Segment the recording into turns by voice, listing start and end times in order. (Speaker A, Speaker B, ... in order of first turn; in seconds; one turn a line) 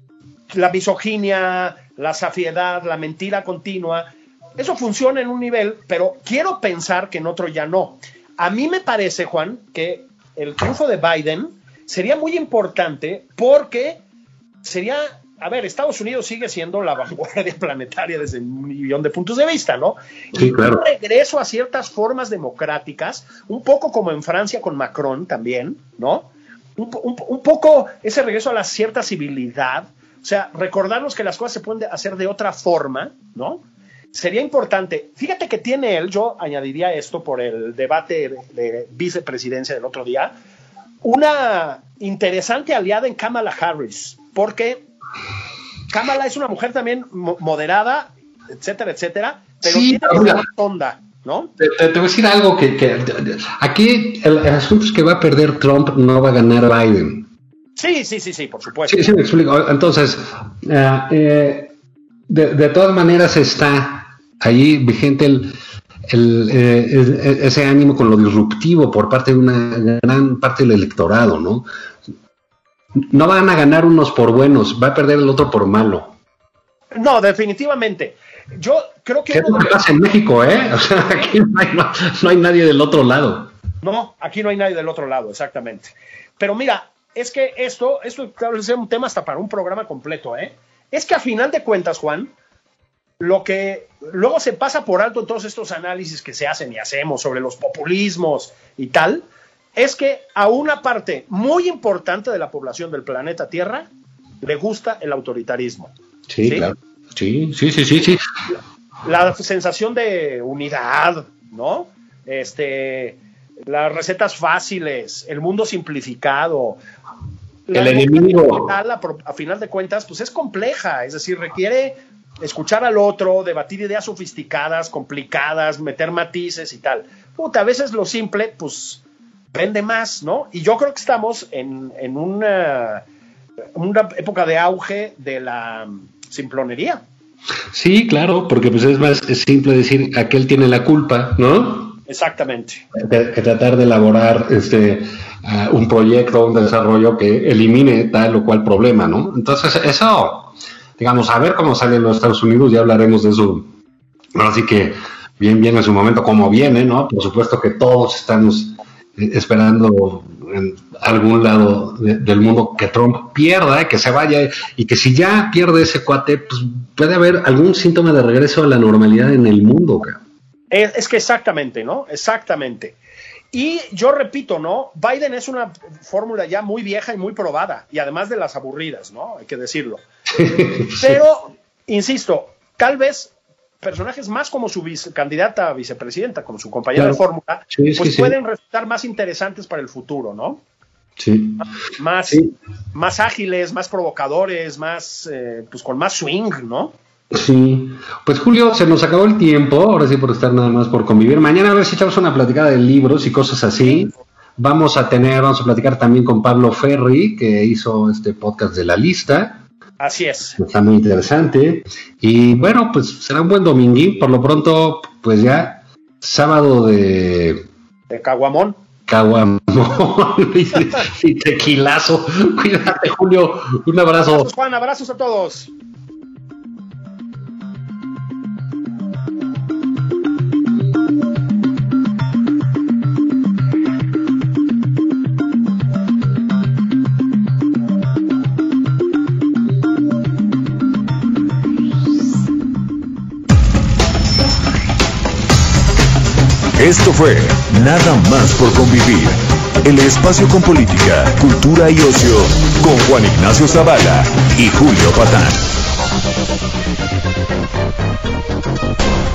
Speaker A: 0.5-14.0
Speaker A: 14.6-40.3
Speaker B: 20.4-20.9
Speaker A: 41.0-44.9
Speaker A: 45.9-51.5
Speaker B: 49.6-50.5
Speaker B: 51.6-57.3
Speaker A: 57.8-59.1
Speaker B: 58.9-61.7
Speaker B: 62.3-71.7
Speaker B: 73.1-76.2
Speaker A: 76.9-79.8
Speaker B: 79.3-83.5
Speaker A: 83.8-92.3
Speaker A: 93.2-103.9
Speaker A: 104.4-105.9
Speaker B: 106.3-108.2
Speaker A: 106.4-106.7
Speaker A: 109.0-116.8
Speaker A: 117.7-133.1
Speaker B: 117.7-118.8
Speaker A: 133.8-137.0
Speaker B: 137.7-142.0
Speaker A: 142.1-142.8
Speaker B: 142.9-153.7
Speaker B: 154.3-170.2
Speaker A: 170.7-173.0
Speaker A: 173.5-180.0
Speaker B: 180.3-181.2
Speaker A: 181.0-190.6
Speaker B: 187.0-188.3
Speaker B: 191.2-191.7
Speaker A: 191.6-196.9
Speaker B: 197.3-209.6
Speaker A: 210.0-210.6
Speaker B: 210.6-217.7
Speaker A: 218.1-218.8
Speaker B: 219.1-224.5
Speaker A: 224.3-225.7
Speaker C: 246.8-255.6